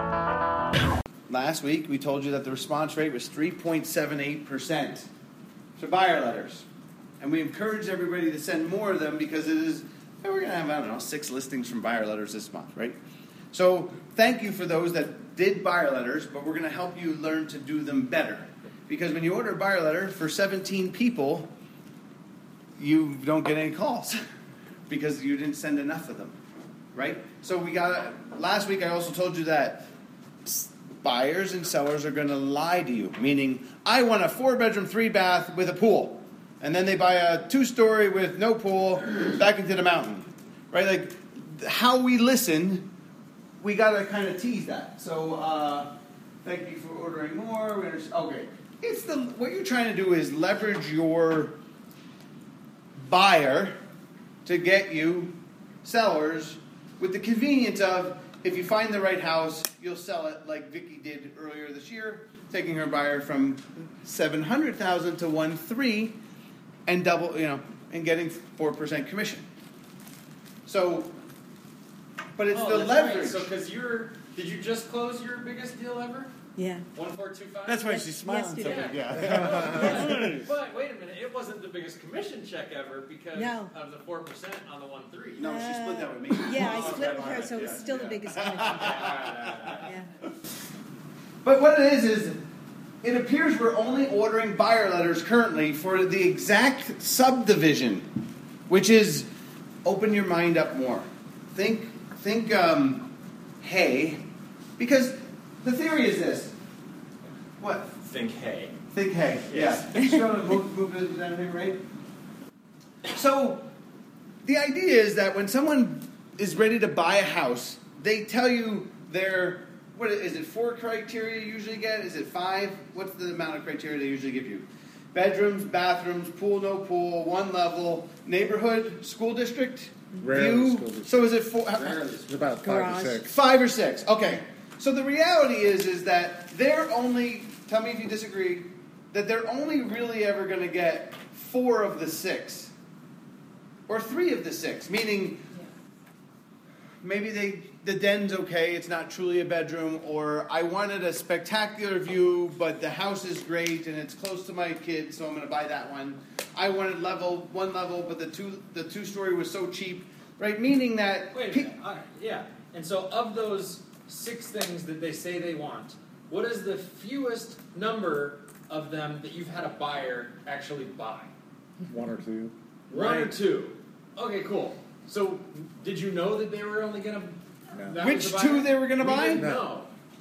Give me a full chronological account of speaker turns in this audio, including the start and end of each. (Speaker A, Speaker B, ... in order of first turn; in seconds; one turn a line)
Speaker A: 1.3-5.1
Speaker A: 5.8-6.7
Speaker A: 7.2-13.0
Speaker A: 13.5-21.5
Speaker A: 22.8-24.2
Speaker A: 24.9-26.4
Speaker A: 26.9-29.9
Speaker A: 30.4-42.9
Speaker A: 43.6-45.9
Speaker A: 46.5-51.5
Speaker A: 53.0-53.7
Speaker A: 54.5-55.3
Speaker A: 55.8-66.2
Speaker A: 66.9-69.4
Speaker A: 70.7-71.1
Speaker A: 72.3-73.5
Speaker B: 72.5-76.3
Speaker C: 76.6-76.8
Speaker B: 76.9-77.7
Speaker A: 77.7-80.5
Speaker C: 77.8-79.2
Speaker B: 78.7-85.4
Speaker D: 79.1-80.4
Speaker C: 79.7-80.2
Speaker C: 83.3-83.7
Speaker A: 85.3-89.9
Speaker C: 85.4-89.1
Speaker B: 86.8-87.8
Speaker B: 88.6-89.7
Speaker C: 89.8-90.1
Speaker A: 91.4-92.4
Speaker A: 93.0-98.1
Speaker A: 98.7-99.3
Speaker A: 99.8-103.1
Speaker A: 103.6-104.2
Speaker A: 104.8-106.5
Speaker A: 107.6-107.9
Speaker B: 108.0-108.7
Speaker A: 108.9-111.8
Speaker B: 109.5-109.9
Speaker A: 113.0-113.7
Speaker A: 114.4-132.3
Speaker D: 130.2-131.2
Speaker B: 131.8-132.3
Speaker D: 132.3-133.3
Speaker C: 132.6-133.2
Speaker A: 133.2-142.7
Speaker A: 143.9-145.4
Speaker A: 147.0-161.7
Speaker B: 161.3-171.3
Speaker D: 171.9-173.3
Speaker B: 172.9-179.9
Speaker D: 177.7-178.1
Speaker A: 178.0-179.5
Speaker D: 179.3-179.7